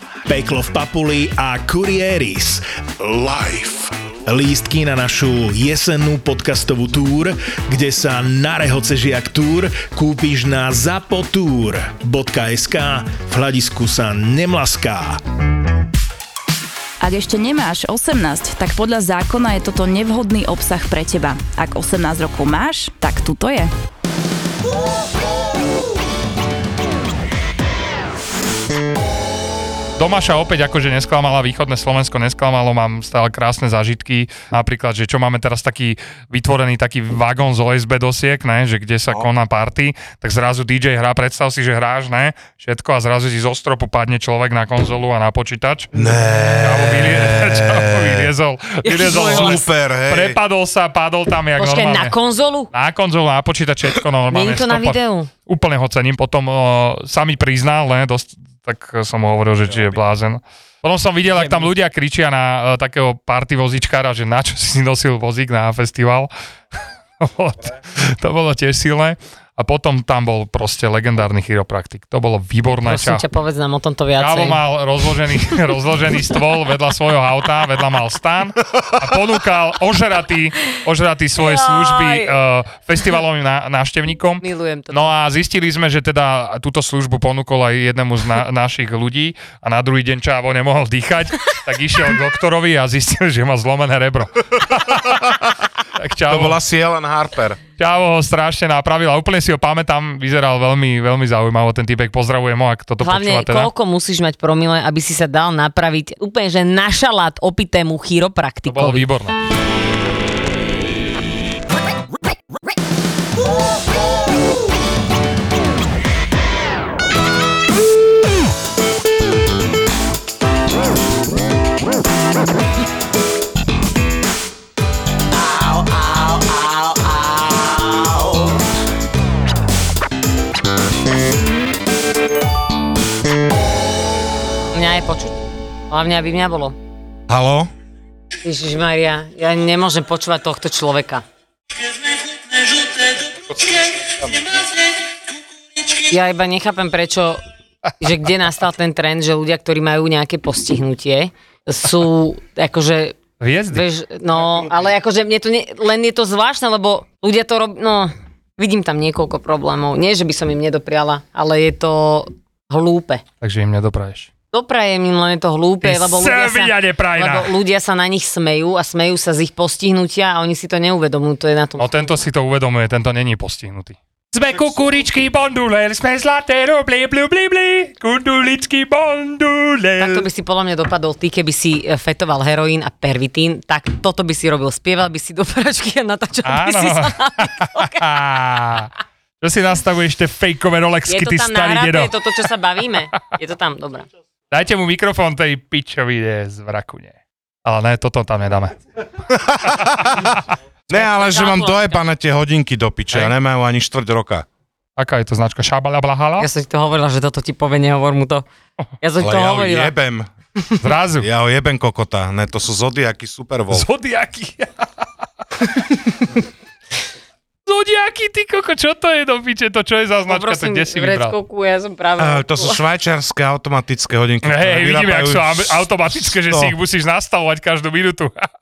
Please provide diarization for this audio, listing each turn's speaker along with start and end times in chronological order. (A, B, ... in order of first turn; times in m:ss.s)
0:00.2-0:15.2 A
0:17.0-0:23.7 B
0:30.0-0:45.9 C
0:45.9-0:48.3 D
0:46.6-0:52.1 C
0:48.8-0:50.4 D
0:51.6-0:52.7 E
0:52.7-1:06.3 C
0:54.3-0:55.3 E
0:59.7-1:00.0 D
1:01.3-1:01.7 E
1:07.2-1:13.2 C
1:12.8-1:14.6 E
1:14.2-1:35.3 C
1:21.4-1:22.3 E
1:24.4-1:25.1 E
1:36.0-1:36.6 C
1:36.3-1:37.6 D
1:37.8-1:43.7 C
1:43.0-1:49.0 E
1:48.7-1:49.4 C
2:14.7-2:16.8 E
2:17.3-2:17.7 D
2:18.4-2:21.2 E
2:23.5-2:24.0 E
2:26.1-2:27.4 E
2:28.0-2:43.2 E
2:33.4-2:33.8 C
2:43.4-2:44.3 C
2:44.5-2:52.1 E
2:45.8-2:47.5 C
2:51.8-3:00.3 C
3:00.0-3:08.1 E
3:06.4-3:12.1 C
3:11.1-3:14.0 E
3:14.5-3:18.8 C
3:19.3-3:20.3 D
3:20.9-3:24.4 D
3:20.9-3:22.0 E
3:25.0-3:26.5 C
3:26.4-3:28.4 E
3:29.0-3:29.9 E
3:29.2-3:30.3 D
3:30.8-3:31.3 C
3:31.2-3:33.9 D
3:33.7-3:34.9 C
3:37.6-3:41.3 C
3:40.3-3:42.8 E
3:42.2-3:46.7 D
3:44.4-3:48.3 C